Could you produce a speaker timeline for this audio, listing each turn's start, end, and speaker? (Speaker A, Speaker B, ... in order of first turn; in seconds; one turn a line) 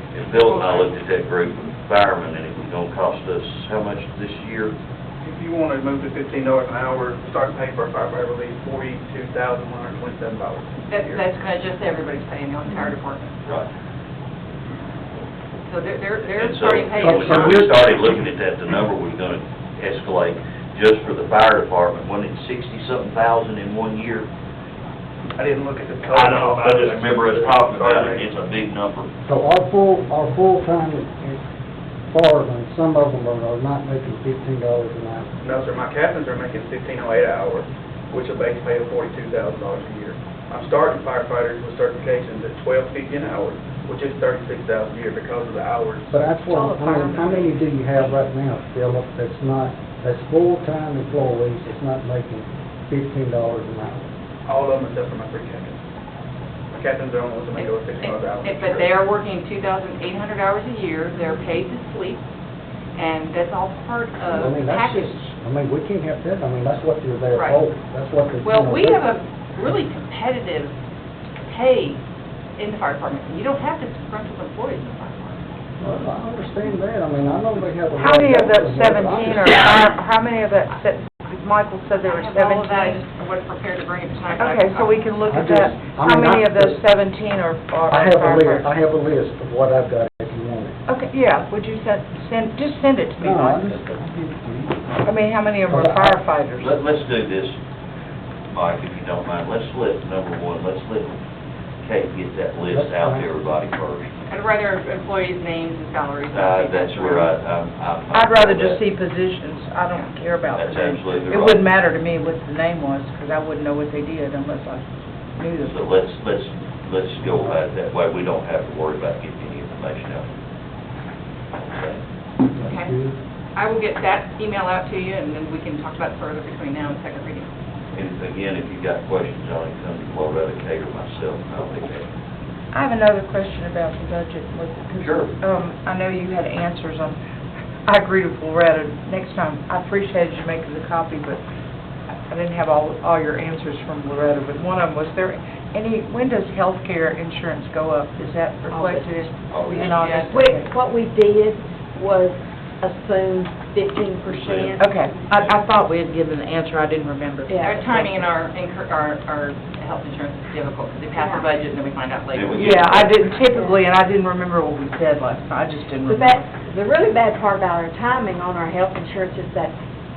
Speaker A: 0.1-4.8
Speaker B: 0.4-0.9
Speaker C: 5.2-11.2
Speaker B: 10.9-13.3
Speaker B: 15.7-17.8
Speaker A: 16.4-24.3
Speaker D: 17.0-17.7
Speaker C: 25.4-28.3
Speaker A: 26.1-29.1
Speaker D: 29.3-31.4
Speaker D: 32.1-35.3
Speaker C: 35.4-46.1
Speaker D: 46.1-54.0
Speaker B: 46.5-47.0
Speaker E: 46.9-47.5
Speaker C: 54.5-55.8
Speaker C: 56.7-58.9
Speaker B: 57.5-62.2
Speaker B: 63.0-65.2
Speaker D: 64.3-69.2
Speaker B: 67.3-67.6
Speaker B: 68.4-70.7
Speaker B: 71.5-72.0
Speaker B: 72.6-75.4
Speaker D: 75.8-79.8
Speaker F: 78.0-83.0
Speaker B: 81.9-85.1
Speaker F: 84.4-88.7
Speaker D: 85.3-86.8
Speaker D: 87.9-90.8
Speaker F: 90.9-93.7
Speaker D: 93.2-94.9
Speaker F: 95.0-96.8
Speaker D: 95.7-96.2
Speaker A: 96.6-97.5
Speaker A: 98.5-101.2
Speaker A: 101.8-104.1
Speaker D: 102.7-103.3
Speaker B: 104.3-107.3
Speaker A: 106.3-108.8
Speaker F: 108.1-115.8
Speaker A: 110.5-111.7
Speaker A: 115.6-120.3
Speaker A: 121.6-122.0
Speaker D: 122.5-123.2
Speaker B: 122.7-122.9
Speaker B: 123.5-127.5
Speaker A: 127.9-132.1
Speaker F: 132.7-137.2
Speaker A: 135.0-135.4
Speaker F: 137.9-141.4
Speaker F: 142.3-150.7
Speaker E: 148.7-149.2
Speaker A: 149.5-150.1
Speaker B: 149.8-150.4
Speaker E: 150.3-155.1
Speaker A: 154.2-154.8
Speaker F: 154.8-158.3
Speaker A: 155.3-155.6
Speaker E: 157.5-157.8
Speaker B: 157.6-162.8
Speaker E: 161.2-161.5
Speaker A: 162.3-163.2
Speaker F: 162.6-166.5
Speaker E: 166.1-169.7